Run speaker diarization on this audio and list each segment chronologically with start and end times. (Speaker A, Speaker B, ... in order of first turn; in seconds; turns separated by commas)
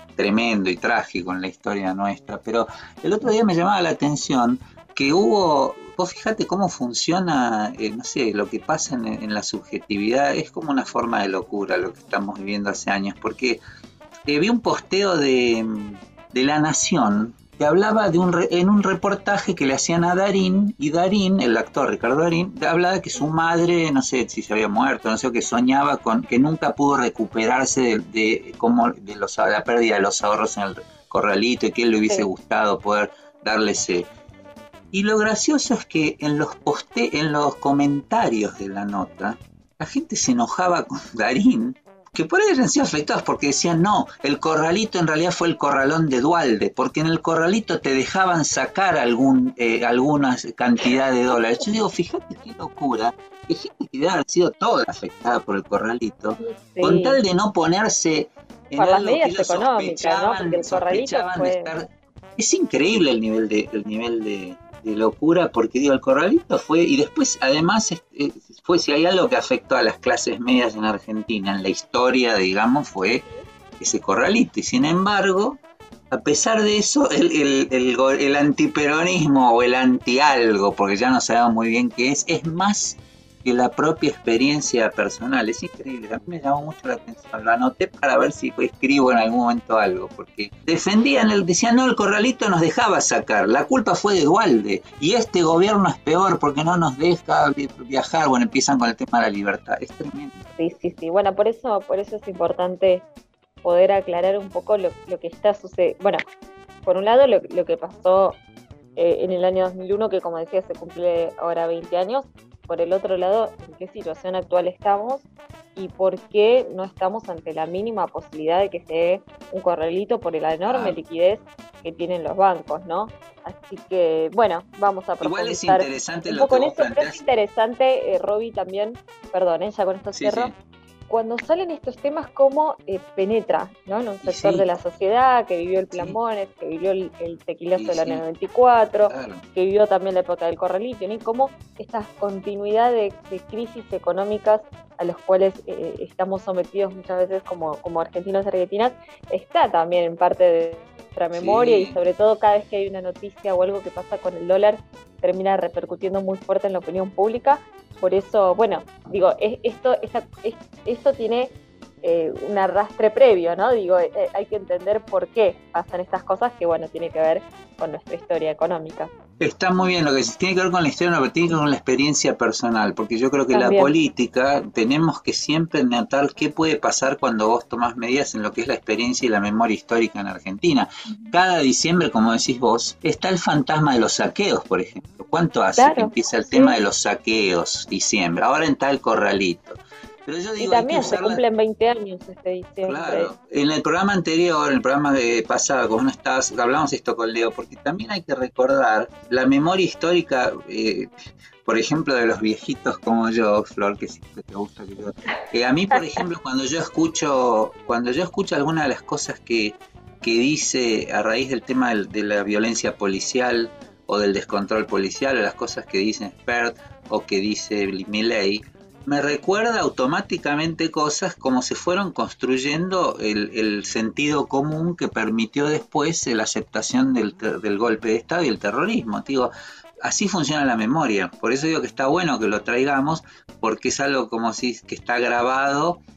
Speaker A: 0.2-13.6, Speaker A: 14.2-34.1, Speaker A: 34.9-73.2, Speaker B: 56.4-57.2, Speaker B: 58.8-61.7, Speaker A: 73.8-75.6, Speaker A: 76.1-100.5, Speaker B: 100.6-103.0, Speaker B: 103.6-106.2, Speaker B: 106.8-108.4, Speaker B: 109.0-115.2, Speaker B: 115.8-130.5, Speaker A: 120.7-121.0, Speaker A: 125.2-127.2, Speaker A: 130.1-130.5, Speaker B: 131.1-169.1, Speaker A: 134.2-134.7, Speaker A: 135.9-136.2, Speaker A: 137.8-138.2, Speaker A: 139.1-139.4, Speaker A: 151.3-152.0, Speaker A: 169.4-191.4, Speaker B: 173.5-173.9, Speaker B: 185.8-186.8, Speaker B: 190.6-193.3, Speaker A: 192.8-201.1, Speaker A: 201.6-236.0